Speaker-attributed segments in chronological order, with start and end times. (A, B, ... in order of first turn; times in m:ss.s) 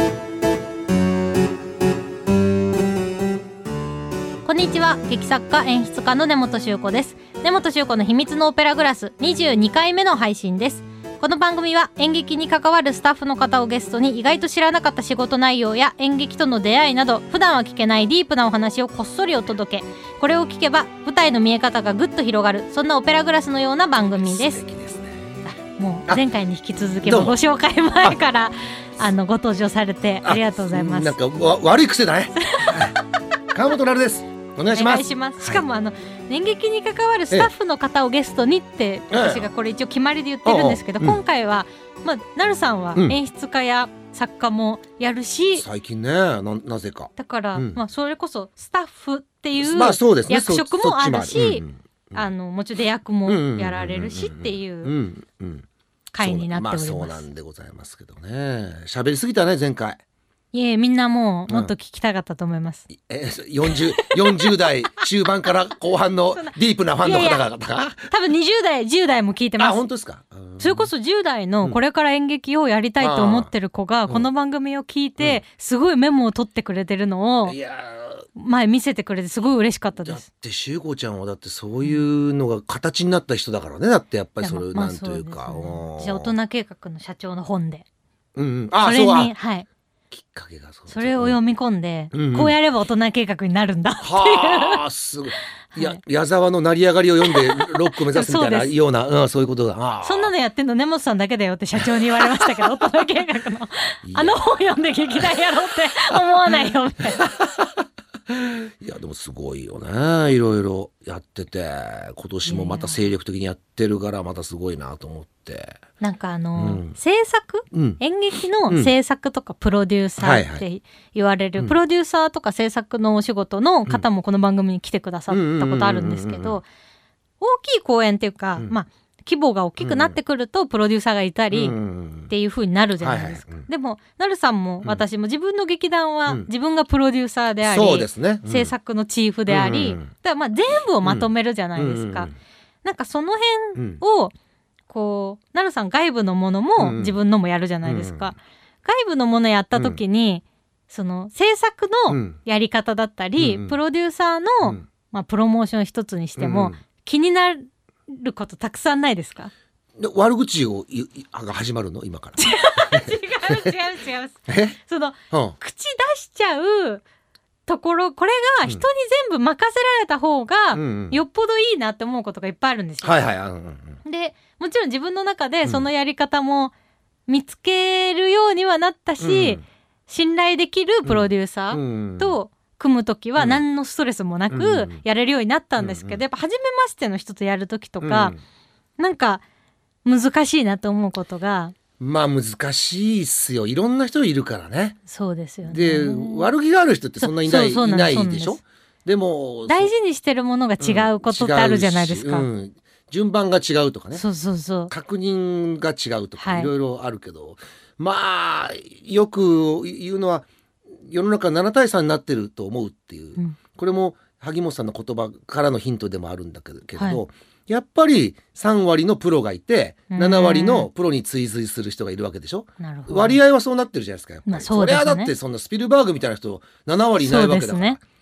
0:04.4-0:24.6 A
0:24.2-0:25.4 B
0:25.5-0:31.2 A
0:27.0-0:27.4 B
0:30.2-0:33.0 B
0:32.4-0:33.0 A
0:33.5-0:35.6 B
0:34.7-0:45.6 A
0:39.1-0:39.5 B
0:40.4-0:41.2 B
0:45.6-0:47.8 B
0:47.2-0:54.9 A
0:49.6-0:52.3 B
0:53.3-0:55.7 B
0:56.1-0:57.2 A
0:56.2-1:00.0 B
1:00.5-1:02.9 A
1:01.5-1:01.7 B
1:02.9-1:08.1 B
1:03.7-1:04.7 A
1:06.4-1:07.4 A
1:08.1-1:09.8 A
1:09.6-1:10.9 B
1:10.6-1:17.6 A
1:13.0-1:13.5 B
1:17.5-1:18.3 B
1:18.4-1:20.3 A
1:20.0-1:26.3 B
1:24.4-1:27.8 A
1:28.4-1:29.3 B
1:28.8-1:29.7 A
1:30.1-1:31.4 B
1:30.9-1:34.8 A
1:32.1-1:32.6 B
1:34.0-1:40.3 B
1:35.8-1:36.0 A
1:37.2-1:38.7 A
1:40.0-1:47.4 A
1:42.0-1:42.7 B
1:44.0-1:45.5 B
1:46.1-1:46.6 B
1:47.2-1:47.7 B
1:48.3-1:55.8 B
1:52.4-1:53.0 A
1:56.0-2:06.7 A
1:56.6-1:57.0 B
1:57.7-1:58.0 B
2:00.2-2:00.6 B
2:05.3-2:06.6 B
2:07.4-2:11.8 A
2:09.8-2:10.2 B
2:11.5-2:12.3 B
2:12.3-2:22.3 A
2:13.0-2:13.7 B
2:17.6-2:18.7 B
2:19.5-2:20.1 B
2:21.0-2:22.3 B
2:22.8-2:24.3 A
2:23.8-2:24.0 B
2:24.9-2:39.5 A
2:26.8-2:27.2 B
2:27.8-2:28.3 B
2:29.8-2:30.0 B
2:32.1-2:32.4 B
2:33.4-2:33.8 B
2:36.4-2:36.8 B
2:40.0-2:43.6 B
2:42.4-2:47.0 A
2:44.5-2:44.8 B
2:45.3-2:45.6 B
2:47.7-2:53.2 A
2:50.7-2:51.2 B
2:53.0-2:54.0 B
2:54.0-2:56.7 A
2:57.3-3:08.4 A
2:59.2-2:59.6 B
3:01.0-3:02.4 B
3:03.4-3:03.6 B
3:04.5-3:05.0 B
3:05.8-3:06.2 B
3:08.0-3:08.4 B
3:09.0-3:09.4 A
3:10.0-3:11.8 A
3:12.0-3:15.0 B
3:15.1-3:16.5 A
3:15.6-3:19.9 B
3:17.2-3:18.6 A
3:19.7-3:22.5 A
3:20.8-3:24.2 B
3:24.1-3:24.9 A
3:24.9-3:30.4 B
3:26.4-3:26.7 A
3:31.0-3:48.0 B
3:37.0-3:37.2 A
3:40.1-3:40.9 A
3:42.8-3:43.4 A
3:44.5-3:45.3 A
3:47.2-3:48.0 A